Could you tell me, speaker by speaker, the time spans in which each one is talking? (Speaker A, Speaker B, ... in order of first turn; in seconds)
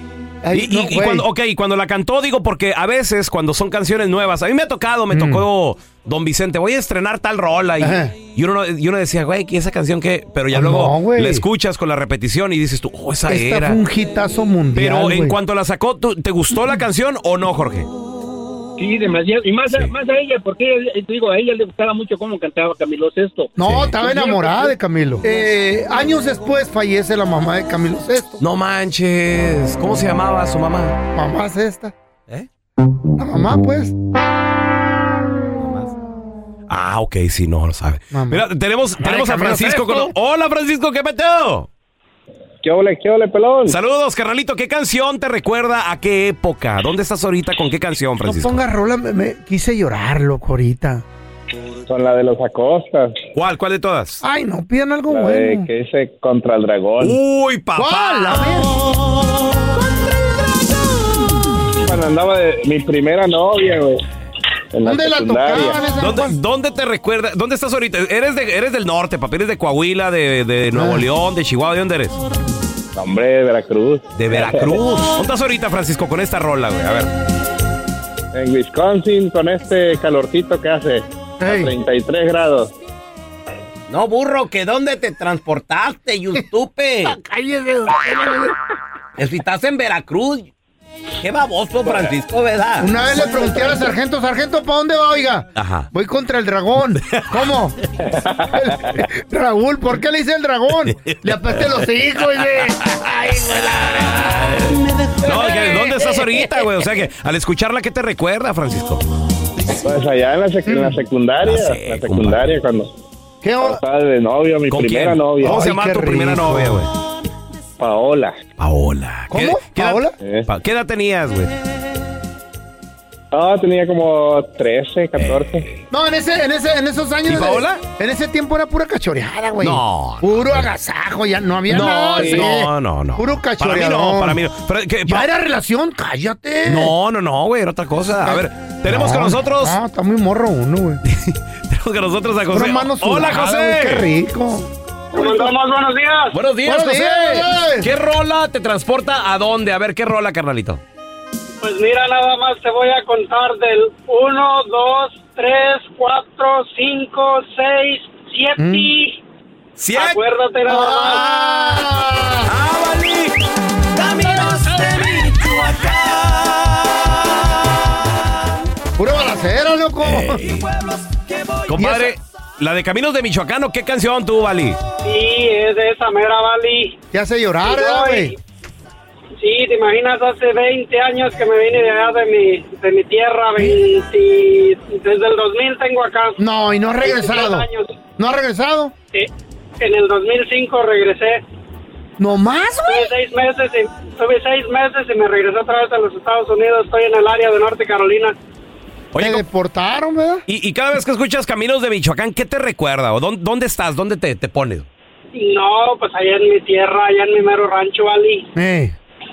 Speaker A: 0.4-1.2, 5.1-5.4, 7.8-8.1, 10.5-11.4, 13.3-15.4, 23.6-28.4, 31.1-31.9, 33.2-34.0, 38.1-38.5, 39.0-40.1, 48.2-51.0, 54.2-55.7, 57.8-58.7, 64.8-66.4, 70.7-71.1, 81.4-81.7, 87.1-88.5, 92.8-97.8, 98.5-106.4, 110.7-111.0, 113.4-113.8, 115.4-116.8, 119.3-120.1, 125.9-134.4, 135.1-136.9, 138.2-141.0, 142.5-145.4, 146.7-147.9, 158.6-158.9, 160.7-162.5, 169.0-170.4, 171.7-172.1, 177.1-178.3, 186.4-187.7, 188.2-188.9, 192.2-193.1, 199.2-200.4, 208.6-209.0
Speaker B: 0.5-13.8, 14.8-17.9, 23.6-24.0, 28.4-31.0, 35.6-35.9, 36.7-41.7, 43.7-48.6, 53.3-54.2, 57.0-58.7, 66.0-72.2, 74.2-77.1, 83.9-87.2, 89.2-90.5, 91.2-92.9, 95.6-95.9, 101.0-101.9, 102.9-109.0, 111.4-112.6, 114.7-116.9, 118.6-121.5, 125.2-125.8, 127.3-127.8, 129.6-130.7, 131.7-135.3, 136.7-139.8, 141.1-144.1, 146.3-150.8, 159.8-160.2, 161.0-161.9, 162.4-163.4, 163.9-166.8, 170.0-170.8, 171.7-174.8, 199.1-199.4, 200.5-204.9
Speaker C: 18.8-24.8
Speaker D: 42.6-43.8, 51.9-53.2, 55.1-57.2, 61.8-64.0, 64.7-65.8, 73.0-74.8, 78.3-82.7, 109.8-112.9, 113.6-115.6, 117.8-118.4, 120.2-120.5, 123.3-125.7
Speaker E: 145.1-146.4, 151.6-159.2, 159.9-161.2, 175.0-177.0, 177.7-178.3, 179.4-186.4, 187.0-187.9, 189.8-191.4, 192.9-198.3, 205.3-208.5